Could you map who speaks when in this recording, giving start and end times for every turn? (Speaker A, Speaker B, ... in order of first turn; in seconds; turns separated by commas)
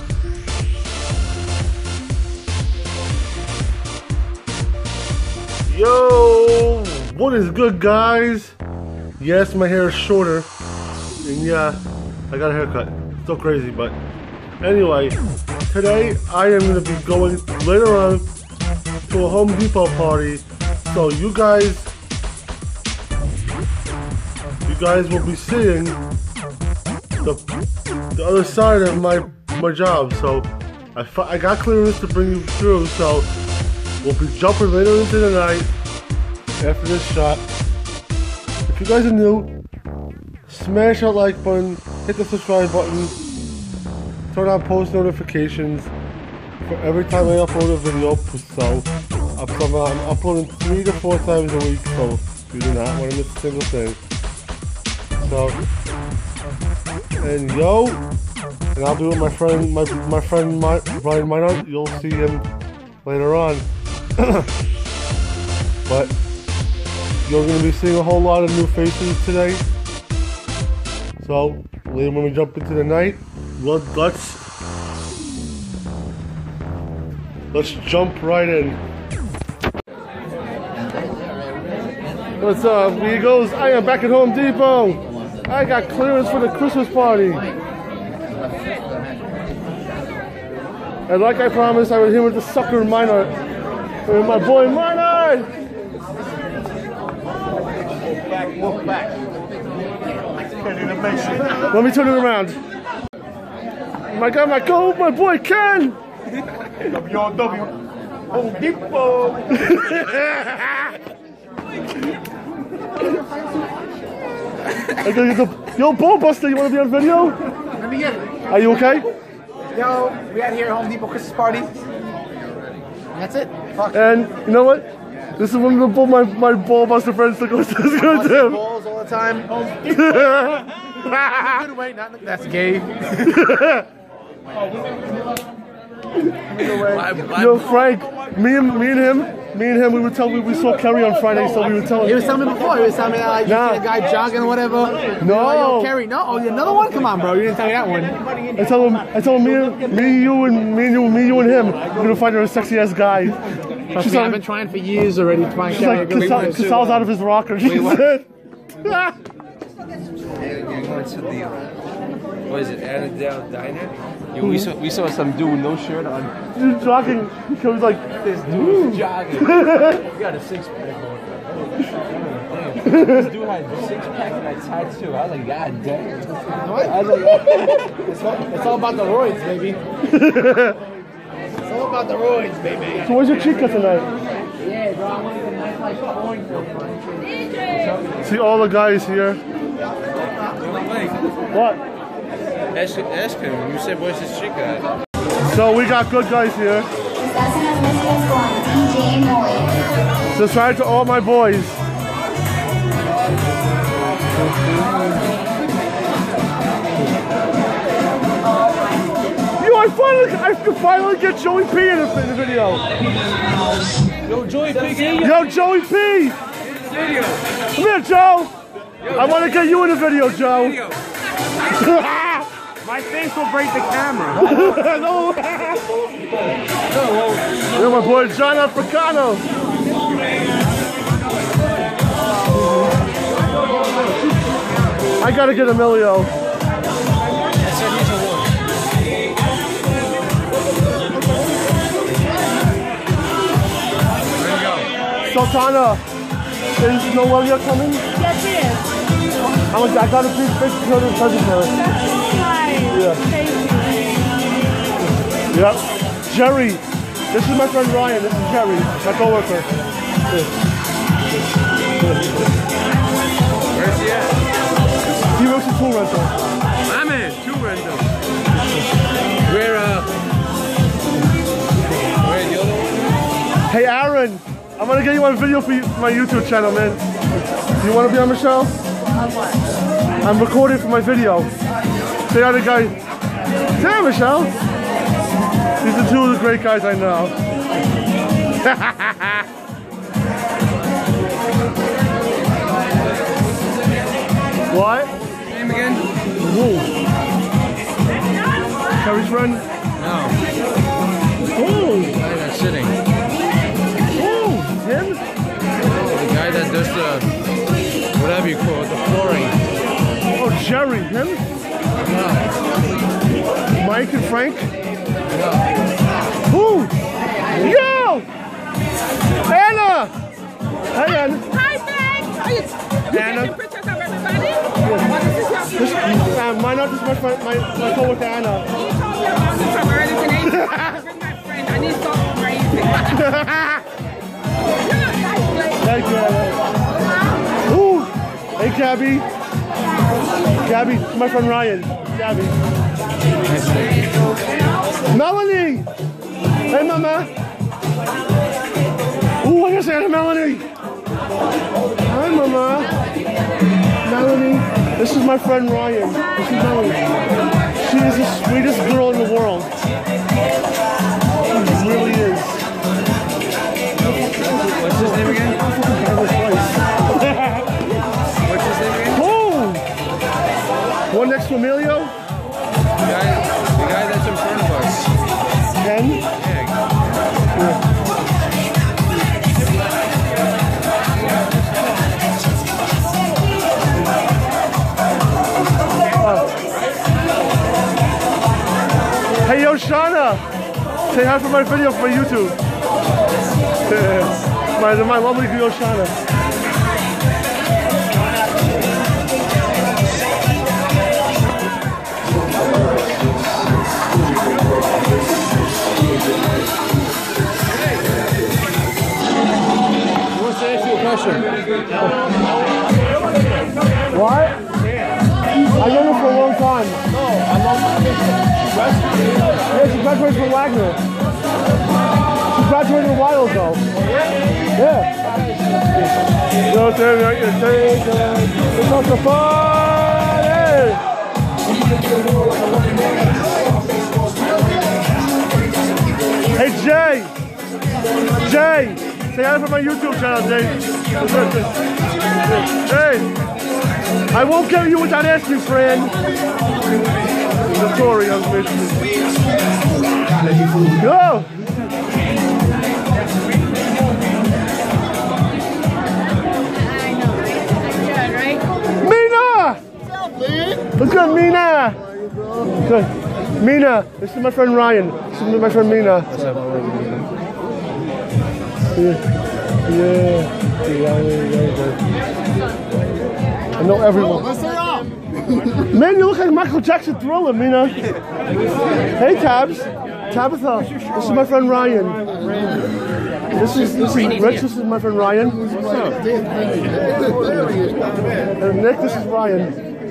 Speaker A: 5.7-8.6, Speaker A: 9.2-10.5, Speaker A: 11.2-11.8, Speaker A: 12.3-14.0, Speaker A: 14.6-15.2, Speaker A: 15.7-18.3, Speaker A: 19.1-21.9, Speaker A: 24.7-26.0, Speaker A: 28.1-33.3, Speaker A: 34.0-35.7, Speaker A: 36.6-37.4, Speaker A: 38.7-39.5, Speaker A: 40.5-43.1, Speaker A: 44.3-45.9, Speaker A: 46.6-54.0, Speaker A: 55.2-55.6, Speaker A: 57.2-58.0, Speaker A: 58.8-62.5, Speaker A: 63.0-63.6, Speaker A: 64.2-64.5, Speaker A: 65.9-66.1, Speaker A: 67.2-69.6, Speaker A: 71.2-74.4, Speaker A: 77.5-78.8, Speaker A: 82.4-87.5, Speaker A: 91.1-93.3, Speaker A: 94.1-95.5, Speaker B: 98.5-99.0, Speaker B: 100.8-101.3, Speaker A: 101.5-102.6, Speaker A: 104.1-106.0, Speaker B: 107.1-107.7, Speaker B: 108.3-109.5, Speaker A: 109.6-110.5, Speaker A: 115.0-117.4, Speaker B: 117.8-118.3, Speaker A: 118.5-119.1, Speaker B: 119.7-121.7, Speaker B: 123.1-124.0, Speaker A: 123.9-128.6, Speaker B: 127.9-130.0, Speaker A: 129.9-130.7, Speaker B: 131.4-133.3, Speaker A: 133.3-133.9, Speaker C: 136.6-137.7, Speaker A: 136.6-142.3, Speaker B: 142.0-148.6, Speaker A: 143.5-143.8, Speaker A: 145.2-145.9, Speaker A: 148.6-153.4, Speaker B: 149.6-150.1, Speaker A: 153.9-154.4, Speaker B: 153.9-158.0, Speaker A: 155.7-158.3, Speaker A: 158.8-159.1, Speaker C: 160.4-161.7, Speaker C: 162.5-166.3, Speaker A: 164.4-164.7, Speaker A: 166.6-170.0, Speaker C: 168.2-171.2, Speaker C: 172.5-176.3, Speaker A: 172.8-173.3, Speaker B: 176.6-179.8, Speaker C: 176.8-177.7, Speaker A: 180.1-180.8, Speaker B: 181.6-183.1, Speaker A: 183.0-184.1, Speaker B: 184.7-186.9, Speaker A: 188.2-189.4, Speaker C: 190.7-191.1, Speaker A: 191.5-191.8, Speaker C: 192.7-194.9, Speaker A: 195.5-196.9, Speaker D: 197.2-199.8, Speaker A: 200.3-201.8, Speaker A: 209.6-212.8, Speaker C: 214.3-215.3, Speaker A: 215.2-216.4, Speaker C: 216.9-217.4, Speaker A: 217.8-218.5, Speaker A: 219.2-220.8, Speaker A: 221.8-222.5, Speaker C: 222.9-224.3, Speaker A: 224.4-225.8, Speaker A: 227.8-229.4, Speaker A: 235.2-236.3, Speaker C: 237.6-238.5, Speaker C: 244.4-244.9, Speaker A: 245.3-246.0, Speaker A: 246.8-248.0, Speaker E: 248.2-248.8, Speaker A: 249.7-251.8, Speaker E: 252.1-254.1, Speaker A: 252.9-253.2, Speaker A: 255.5-259.7, Speaker C: 263.7-264.4, Speaker A: 265.4-266.3, Speaker C: 266.9-268.1, Speaker C: 269.5-270.1, Speaker C: 272.2-273.0, Speaker A: 273.7-277.0, Speaker A: 277.8-278.7, Speaker E: 279.2-279.5, Speaker A: 280.2-281.5, Speaker A: 282.3-283.0, Speaker A: 283.8-284.5, Speaker A: 285.8-287.3, Speaker A: 288.7-289.3, Speaker A: 294.7-295.1, Speaker C: 295.5-296.1, Speaker A: 296.4-296.9, Speaker A: 299.0-299.6, Speaker C: 300.0-300.4, Speaker A: 301.6-302.2, Speaker C: 302.1-303.0, Speaker A: 304.1-305.2, Speaker C: 305.9-307.3, Speaker C: 308.1-309.6, Speaker A: 310.4-311.4, Speaker C: 312.1-312.5, Speaker A: 313.8-314.7, Speaker C: 315.3-315.6, Speaker A: 316.5-316.9, Speaker A: 317.6-318.3, Speaker A: 319.5-320.1, Speaker A: 320.9-321.4, Speaker A: 323.1-323.6, Speaker A: 324.8-325.1, Speaker A: 325.8-328.7, Speaker A: 330.5-330.9, Speaker B: 332.1-332.9, Speaker A: 333.1-333.8, Speaker A: 335.8-336.6, Speaker A: 337.7-339.3, Speaker A: 340.6-342.6, Speaker C: 343.4-344.1, Speaker A: 345.1-345.9, Speaker A: 346.7-347.3, Speaker A: 349.4-350.7, Speaker A: 352.1-352.9, Speaker A: 354.1-357.0, Speaker A: 357.8-359.7, Speaker A: 361.5-362.6, Speaker C: 364.4-365.6, Speaker A: 365.0-366.7, Speaker C: 368.5-369.2, Speaker A: 369.1-369.8, Speaker A: 371.1-372.1, Speaker C: 373.0-375.1, Speaker A: 375.8-376.2, Speaker C: 376.4-376.8, Speaker A: 386.2-386.5, Speaker A: 389.4-390.4, Speaker A: 391.1-392.6, Speaker A: 393.9-396.1, Speaker C: 410.4-411.5, Speaker A: 414.1-414.6, Speaker A: 415.8-417.0, Speaker A: 419.7-421.0, Speaker A: 422.5-423.9, Speaker A: 424.8-425.1, Speaker A: 426.7-431.0, Speaker A: 436.6-437.3, Speaker A: 438.4-441.7, Speaker A: 442.5-443.3, Speaker A: 444.3-446.1, Speaker A: 447.7-449.1, Speaker A: 451.0-451.5, Speaker E: 457.9-458.6, Speaker A: 459.0-459.8, Speaker A: 460.9-462.0, Speaker A: 462.8-466.4, Speaker C: 466.4-467.1, Speaker A: 468.9-469.2, Speaker A: 469.9-472.0, Speaker A: 473.8-474.6, Speaker A: 475.9-478.0, Speaker A: 479.2-482.2, Speaker A: 483.5-486.2, Speaker A: 488.6-489.8